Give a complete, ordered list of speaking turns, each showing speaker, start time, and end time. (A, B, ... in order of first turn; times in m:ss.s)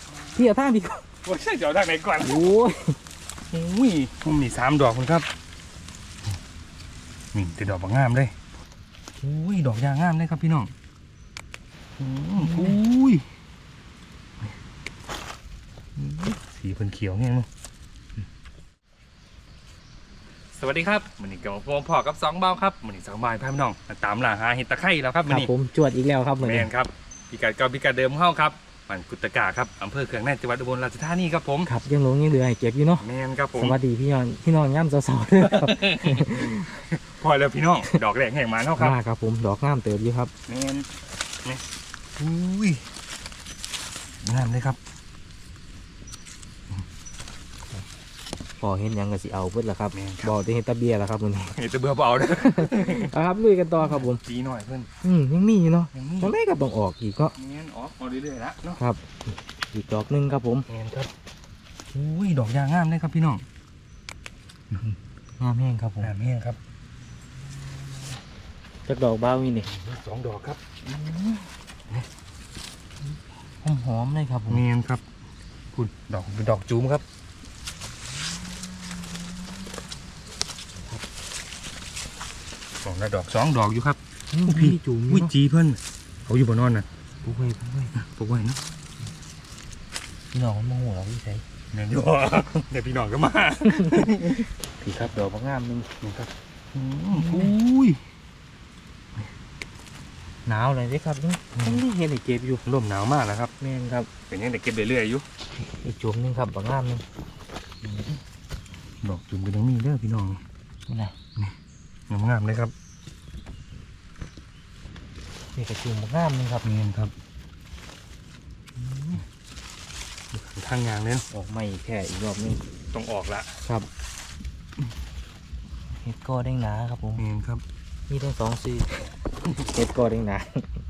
0:00.2-0:00.4 A
0:00.4-0:01.0 B
0:01.2-0:02.5 A
0:02.2-0:03.0 B
0:03.5-0:05.3 A
0:07.3-0:08.3 A
0:09.2-0:10.7 A
0:12.0-0:13.3 A
0:12.4-0:12.8 B
0:16.0-0:17.5 A
0:20.5-0:25.5 A
0:25.3-0:26.7 B
0:26.4-0:31.7 A
0:31.6-0:33.1 B
0:33.0-0:33.8 A
0:33.6-0:36.7 B
0:35.4-0:39.0 A
0:38.8-0:40.3 B
0:40.5-0:40.9 A
0:42.2-0:42.9 A
0:44.2-0:44.8 A
0:48.6-0:51.6 B
0:49.9-0:50.4 A
0:51.5-0:53.1 A
0:52.4-0:54.2 B
0:53.8-0:54.9 A
0:55.0-0:57.4 B
0:55.9-0:56.4 A
0:57.4-0:58.8 A
0:58.8-0:59.2 B
0:59.7-1:00.7 B
1:00.7-1:01.1 A
1:01.9-1:03.4 A
1:04.7-1:06.1 B
1:06.0-1:06.6 A
1:08.9-1:09.7 B
1:09.7-1:10.6 A
1:10.8-1:11.5 B
1:13.6-1:14.6 B
1:14.5-1:15.0 A
1:15.7-1:17.0 A
1:22.8-1:26.9 A
1:24.3-1:25.3 B
1:27.2-1:27.9 B
1:28.0-1:28.6 A
1:30.3-1:31.4 B
1:31.7-1:34.5 A
1:34.8-1:35.9 B
1:36.0-1:38.0 A
1:37.1-1:37.5 B
1:40.5-1:42.6 B
1:41.6-1:41.8 A
1:42.7-1:43.5 A
1:43.6-1:44.1 B
1:44.3-1:45.2 A
1:45.7-1:47.0 B
1:47.8-1:48.2 A
1:49.0-1:50.4 A
1:50.9-1:51.2 B
1:52.1-1:52.7 A
1:55.6-1:56.7 B
1:56.6-1:57.1 A
1:58.8-1:59.2 B
2:00.3-2:01.3 A
2:01.3-2:02.6 B
2:02.9-2:03.6 A
2:06.0-2:07.2 B
2:07.2-2:07.6 A
2:08.1-2:10.7 B